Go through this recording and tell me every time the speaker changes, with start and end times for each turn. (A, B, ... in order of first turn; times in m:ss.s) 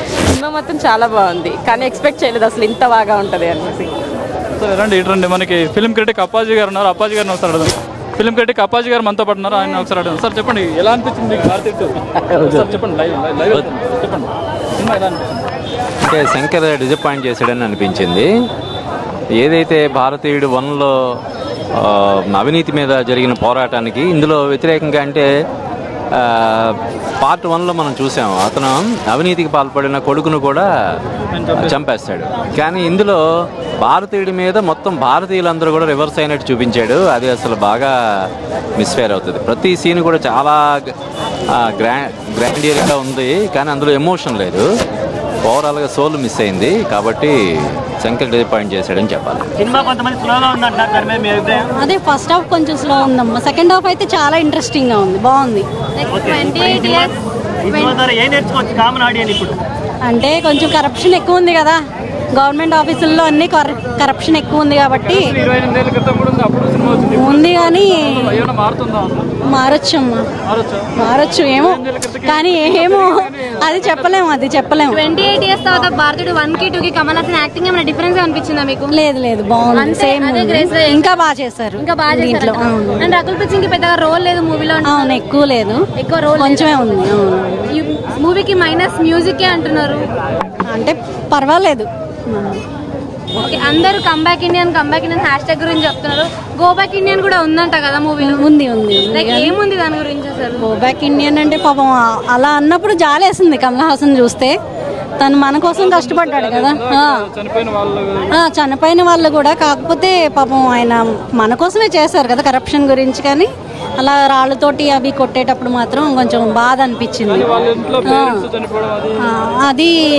0:00.3-0:03.9 A
0:04.6-0:15.3 B
0:12.3-0:12.7 C
0:16.0-0:18.3 C
0:19.4-0:20.9 C
0:21.8-0:25.3 C
0:26.1-0:30.7 C
0:31.3-0:31.7 B
0:31.5-0:33.2 C
0:33.8-0:38.3 C
0:38.8-0:40.9 C
0:41.5-0:44.6 C
0:45.4-0:47.3 C
0:48.0-0:49.5 C
0:49.6-0:51.7 D
0:51.8-0:55.6 E
0:56.0-0:57.1 F
0:56.1-0:57.1 D
0:57.6-0:59.6 D
0:57.7-0:58.0 F
1:00.1-1:01.8 E
1:02.4-1:05.3 E
1:05.0-1:09.3 B
1:07.1-1:08.4 E
1:09.4-1:10.3 E
1:10.4-1:10.9 B
1:11.0-1:15.0 E
1:11.6-1:14.1 B
1:14.9-1:18.9 F
1:18.9-1:23.1 E
1:19.8-1:21.2 F
1:21.8-1:25.1 F
1:24.8-1:25.8 E
1:26.0-1:27.0 F
1:26.4-1:27.7 E
1:27.7-1:30.1 F
1:30.7-1:32.6 E
1:33.4-1:38.4 F
1:38.2-1:39.6 E
1:39.1-1:40.6 F
1:40.6-1:44.5 E
1:45.2-1:47.2 E
1:45.6-1:48.3 B
1:48.4-1:57.5 E
1:57.3-1:59.2 B
1:58.0-1:58.5 E
1:59.3-1:59.9 E